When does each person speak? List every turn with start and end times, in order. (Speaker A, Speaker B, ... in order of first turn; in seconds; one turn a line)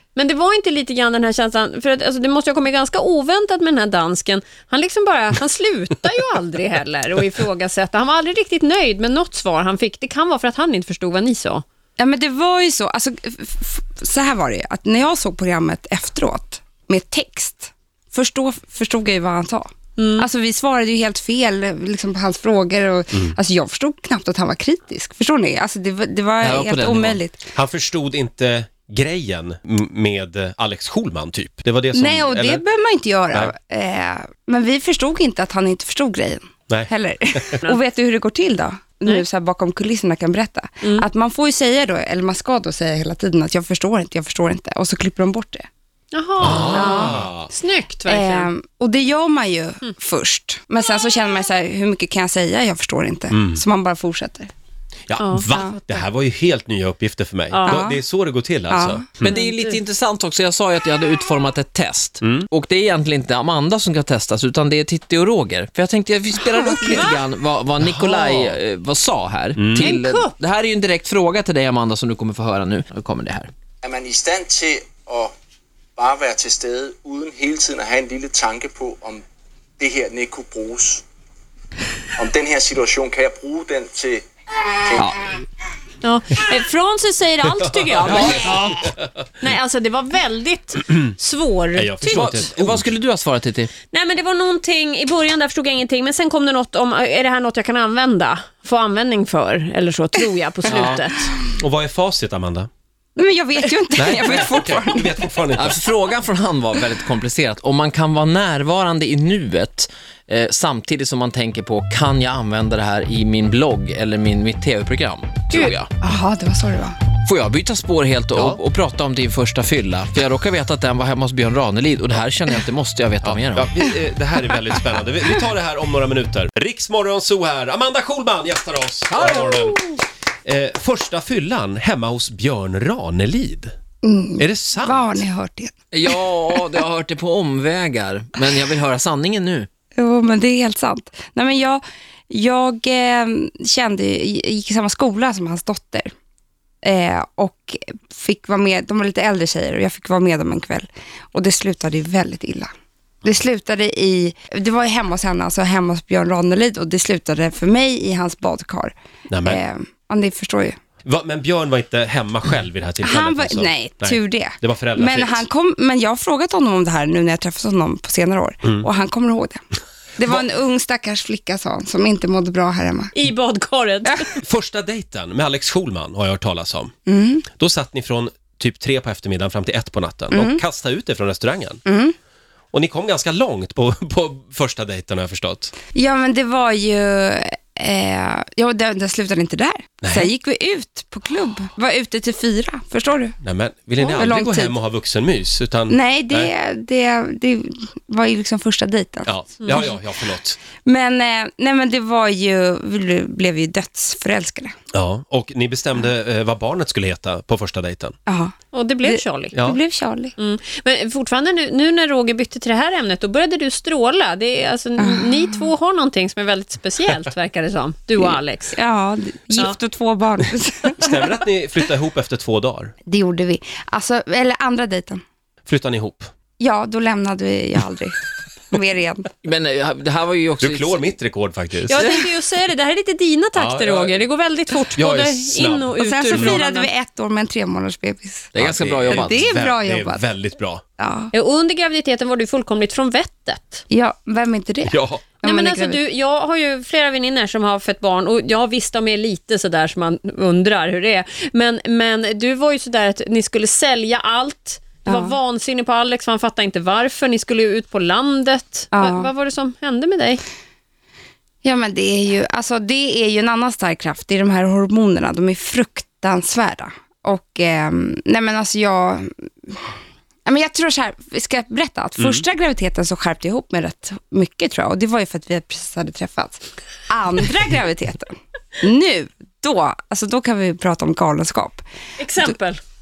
Speaker A: 0.1-11.6
Speaker B: 12.0-27.4
Speaker A: 20.0-20.2
Speaker C: 26.4-27.2
Speaker D: 27.5-32.6
Speaker B: 31.9-45.7
Speaker D: 36.7-37.4
Speaker A: 46.1-48.5
Speaker D: 46.4-47.5
Speaker C: 46.5-46.7
Speaker B: 46.7-47.2
Speaker B: 48.1-54.5
Speaker D: 53.3-53.6
Speaker D: 55.1-59.4
Speaker A: 55.2-55.7
Speaker B: 55.5-55.8
Speaker A: 57.5-57.8
Speaker B: 57.6-58.0
Speaker B: 58.7-59.0
Speaker C: 59.2-73.5
Speaker A: 59.2-59.8
Speaker D: 62.2-62.5
Speaker A: 66.8-67.2
Speaker D: 67.8-68.6
Speaker D: 69.6-69.9
Speaker A: 69.7-70.3
Speaker E: 73.8-75.3
Speaker E: 76.0-79.2
Speaker E: 79.8-81.0
Speaker E: 82.2-84.2
Speaker E: 84.8-85.1
Speaker C: 85.0-85.3
Speaker A: 86.0-88.9
Speaker D: 88.0-89.0
Speaker A: 89.4-92.4
Speaker D: 91.8-92.8
Speaker C: 92.0-93.7
Speaker A: 93.9-101.3
Speaker C: 100.6-101.0
Speaker D: 100.7-101.0
Speaker D: 101.6-102.7
Speaker B: 103.2-105.2
Speaker D: 104.0-105.8
Speaker C: 105.5-115.9
Speaker B: 116.0-117.0
Speaker C: 117.2-123.7
Speaker D: 118.3-118.6
Speaker D: 123.2-129.8
Speaker C: 129.1-130.0
Speaker D: 130.4-133.7
Speaker B: 134.0-136.6
Speaker D: 134.4-135.2
Speaker C: 135.9-139.7
Speaker B: 139.9-146.1
Speaker B: 146.8-152.7
Speaker B: 153.2-158.9
Speaker D: 159.3-159.6
Speaker B: 159.4-160.8
Speaker D: 161.0-165.4
Speaker B: 163.0-169.6
Speaker B: 170.2-173.1
Speaker A: 173.1-174.3
Speaker D: 174.3-176.9
Speaker B: 177.1-177.4
Speaker D: 177.6-181.8
Speaker B: 180.3-180.6
Speaker B: 181.8-182.1
Speaker D: 182.7-185.7
Speaker B: 185.9-193.3
Speaker D: 190.0-190.3
Speaker D: 193.4-196.5
Speaker B: 194.0-194.8
Speaker B: 195.9-199.9
Speaker D: 199.2-200.6
Speaker A: 199.6-199.9
Speaker B: 200.8-204.7
Speaker D: 204.9-208.1
Speaker B: 208.3-210.3
Speaker A: 208.7-209.5
Speaker A: 210.4-218.8
Speaker B: 215.0-215.7
Speaker B: 218.7-221.2
Speaker D: 221.0-222.9
Speaker B: 223.1-225.2
Speaker D: 225.7-226.3
Speaker B: 226.6-228.2
Speaker B: 228.7-229.3
Speaker C: 229.4-231.0
Speaker D: 230.6-232.1
Speaker A: 231.9-236.9
Speaker D: 233.6-234.2
Speaker D: 234.9-236.6
Speaker B: 236.0-238.5
Speaker C: 238.5-239.4
Speaker D: 238.6-240.8
Speaker B: 239.1-240.2
Speaker B: 241.0-241.3
Speaker A: 241.3-243.8
Speaker B: 243.9-246.0
Speaker D: 244.8-245.2
Speaker A: 245.4-260.4
Speaker B: 255.1-255.4
Speaker B: 258.9-259.3
Speaker B: 261.6-269.9
Speaker B: 270.4-281.8
Speaker D: 272.2-272.4
Speaker A: 282.2-282.8